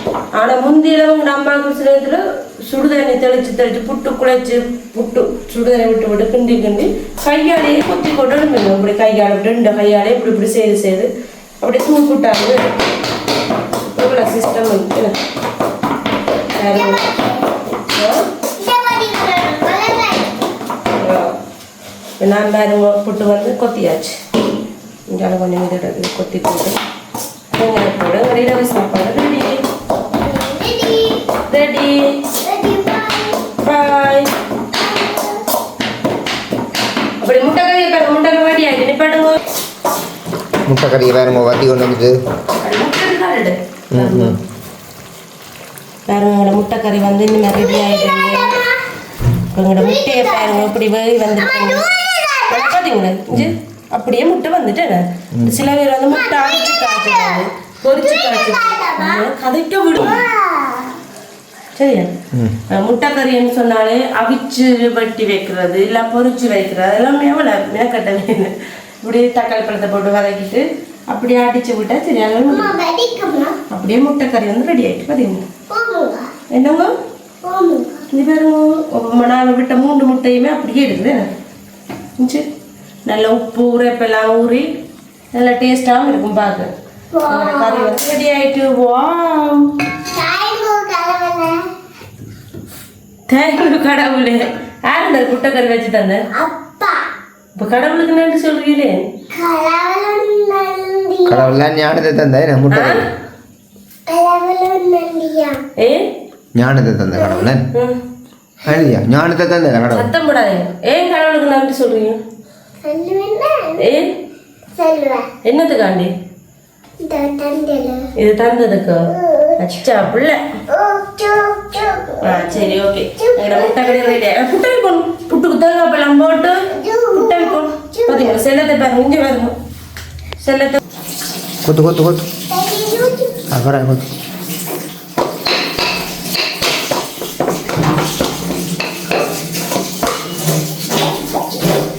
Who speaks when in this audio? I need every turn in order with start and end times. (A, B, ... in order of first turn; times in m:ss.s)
0:00.4-0:11.1 A
0:11.6-0:12.6 A
0:13.8-0:15.2 A
0:16.5-0:17.0 A
0:16.7-0:17.5 B
0:18.6-0:20.4 B
0:21.0-0:21.3 A
0:22.2-0:24.2 A
0:25.1-0:26.8 A
0:27.5-0:29.6 A
0:30.2-0:31.2 B
0:31.5-0:32.0 A
0:32.4-0:33.4 B
0:33.6-0:34.3 A
0:34.7-0:35.4 B
0:37.2-0:39.4 A
0:40.6-0:42.2 C
0:42.6-0:44.4 A
0:43.9-0:44.4 C
0:46.1-0:48.5 A
0:47.6-0:48.8 B
0:49.5-0:51.9 A
0:49.8-0:50.7 B
0:51.4-0:52.8 B
0:52.5-1:00.2 A
0:55.3-0:55.6 C
0:56.1-0:59.3 B
1:00.0-1:01.0 B
1:01.7-1:02.1 A
1:02.7-1:12.7 A
1:12.5-1:13.6 B
1:13.7-1:15.4 A
1:15.7-1:16.3 B
1:16.5-1:16.9 A
1:17.4-1:18.0 B
1:18.1-1:21.2 A
1:22.2-1:22.4 A
1:23.0-1:24.6 A
1:25.3-1:26.7 A
1:27.1-1:28.0 B
1:27.3-1:29.6 A
1:30.1-1:31.6 B
1:33.3-1:36.2 A
1:36.3-1:37.0 B
1:37.6-1:39.0 A
1:39.3-1:41.5 B
1:41.2-1:43.0 C
1:42.7-1:43.0 A
1:44.1-1:45.6 B
1:45.8-1:46.0 A
1:46.5-1:47.6 C
1:47.2-1:47.5 B
1:48.6-1:50.1 C
1:49.9-1:52.2 A
1:52.8-1:53.8 B
1:53.8-1:54.1 A
1:54.8-1:55.3 B
1:55.4-1:56.1 A
1:57.0-1:58.1 B
1:58.2-2:00.4 A
1:59.1-1:59.7 B
2:00.7-2:04.2 B
2:02.2-2:09.5 A
2:06.7-2:08.4 B
2:10.4-2:10.8 A
2:11.6-2:12.2 C
2:12.5-2:13.4 B
2:13.5-2:14.0 C